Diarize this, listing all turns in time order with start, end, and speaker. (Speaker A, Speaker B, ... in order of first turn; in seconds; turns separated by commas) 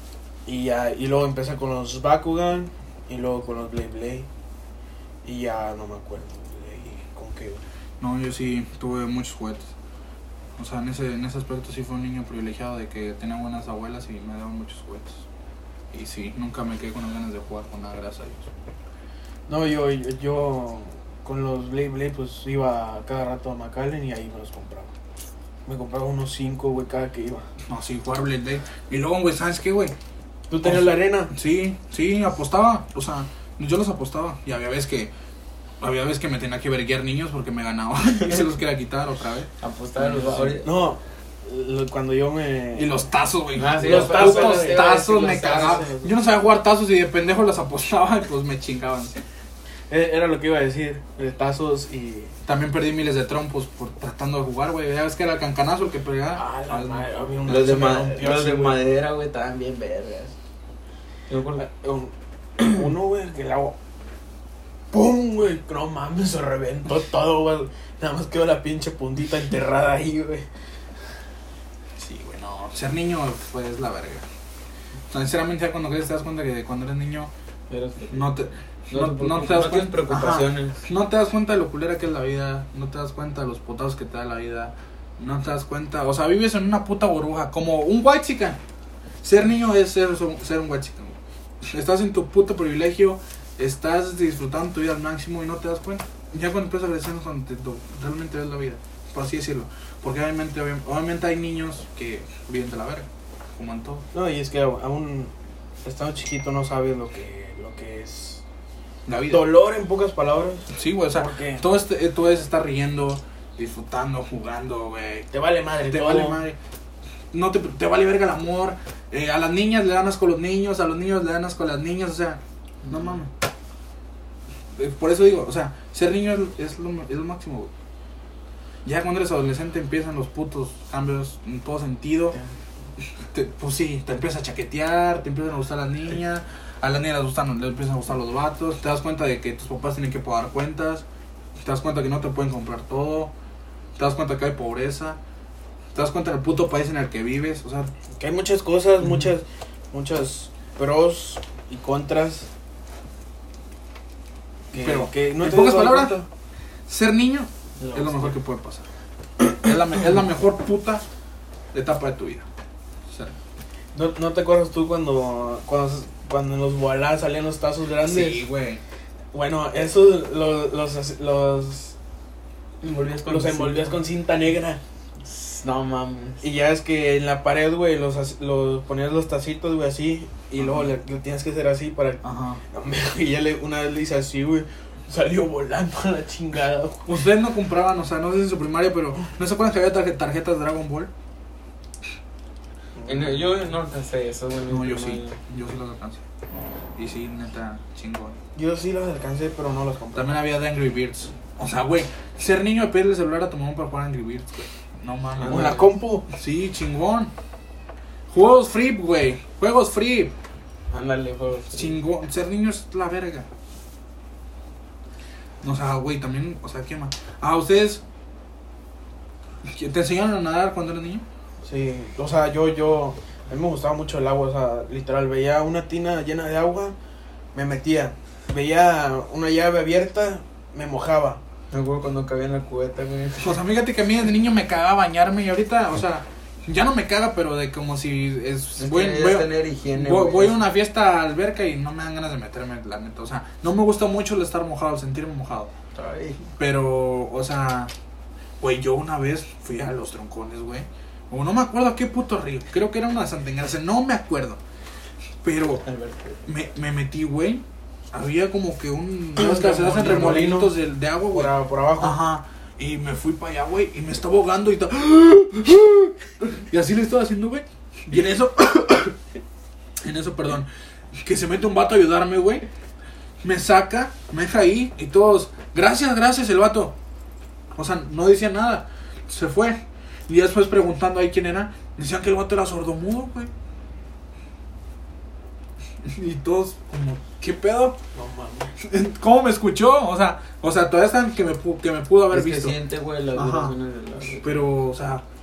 Speaker A: 0.5-4.3, Speaker A: 5.2-7.6, Speaker B: 8.0-9.7, Speaker B: 10.6-15.2, Speaker B: 15.9-18.5, Speaker A: 19.5-24.9, Speaker A: 25.6-27.5, Speaker B: 27.7-29.9, Speaker A: 30.5-31.3, Speaker B: 30.6-35.1, Speaker B: 35.8-40.6, Speaker C: 39.6-40.8, Speaker A: 40.6-42.9, Speaker B: 42.7-49.2, Speaker C: 43.5-45.9, Speaker A: 43.7-46.1, Speaker A: 49.9-52.3, Speaker B: 52.4-57.1, Speaker A: 56.3-58.8, Speaker C: 57.5-60.3, Speaker C: 61.3-61.7, Speaker A: 61.6-63.7, Speaker A: 64.9-70.5, Speaker B: 72.0-74.2, Speaker B: 75.1-77.3, Speaker C: 77.7-78.3, Speaker B: 78.1-88.6, Speaker C: 78.9-80.8, Speaker B: 89.2-91.2, Speaker B: 91.7-104.0, Speaker A: 104.1-105.3, Speaker A: 105.8-108.4, Speaker B: 109.0-109.5, Speaker A: 109.3-111.7, Speaker B: 110.7-115.3, Speaker A: 115.3-116.4, Speaker B: 115.8-116.5, Speaker B: 117.3-123.3, Speaker C: 122.8-123.1, Speaker B: 124.7-127.7, Speaker B: 128.8-132.4, Speaker B: 133.2-141.0, Speaker B: 141.6-143.3, Speaker B: 144.0-145.2, Speaker B: 145.9-147.9, Speaker A: 148.2-152.5, Speaker A: 154.7-156.3, Speaker B: 154.8-156.2, Speaker B: 156.9-158.9, Speaker A: 157.8-158.3, Speaker B: 159.4-161.0, Speaker B: 161.7-162.4, Speaker B: 163.1-163.3, Speaker A: 163.9-168.4, Speaker B: 168.0-168.8, Speaker A: 169.3-171.9, Speaker C: 172.8-174.0, Speaker A: 173.2-174.8, Speaker C: 175.2-176.4, Speaker A: 176.4-187.2, Speaker B: 180.6-180.9, Speaker B: 182.2-182.6, Speaker B: 187.1-191.1, Speaker A: 192.9-193.5, Speaker C: 193.0-195.4, Speaker B: 194.7-196.2, Speaker B: 196.9-198.4, Speaker A: 198.5-200.4, Speaker B: 200.1-207.3, Speaker C: 205.4-205.9, Speaker A: 205.4-206.2, Speaker B: 208.3-210.3, Speaker C: 210.9-212.0, Speaker B: 211.7-213.5, Speaker B: 215.6-218.0, Speaker B: 219.6-221.2, Speaker A: 221.6-226.9, Speaker A: 227.5-231.4, Speaker C: 231.7-233.6, Speaker B: 233.4-245.7, Speaker C: 238.8-240.6, Speaker C: 245.9-246.4, Speaker B: 246.6-247.9, Speaker B: 248.6-254.6, Speaker B: 255.4-255.8, Speaker C: 255.8-256.5, Speaker B: 256.4-269.2, Speaker A: 259.4-260.7, Speaker A: 261.3-262.2, Speaker B: 270.0-270.7, Speaker B: 271.2-272.7, Speaker B: 273.4-276.9, Speaker B: 277.7-283.5, Speaker B: 286.0-288.0, Speaker A: 288.1-288.7, Speaker B: 288.8-292.7, Speaker C: 292.3-294.6, Speaker B: 293.3-293.7, Speaker B: 294.4-295.2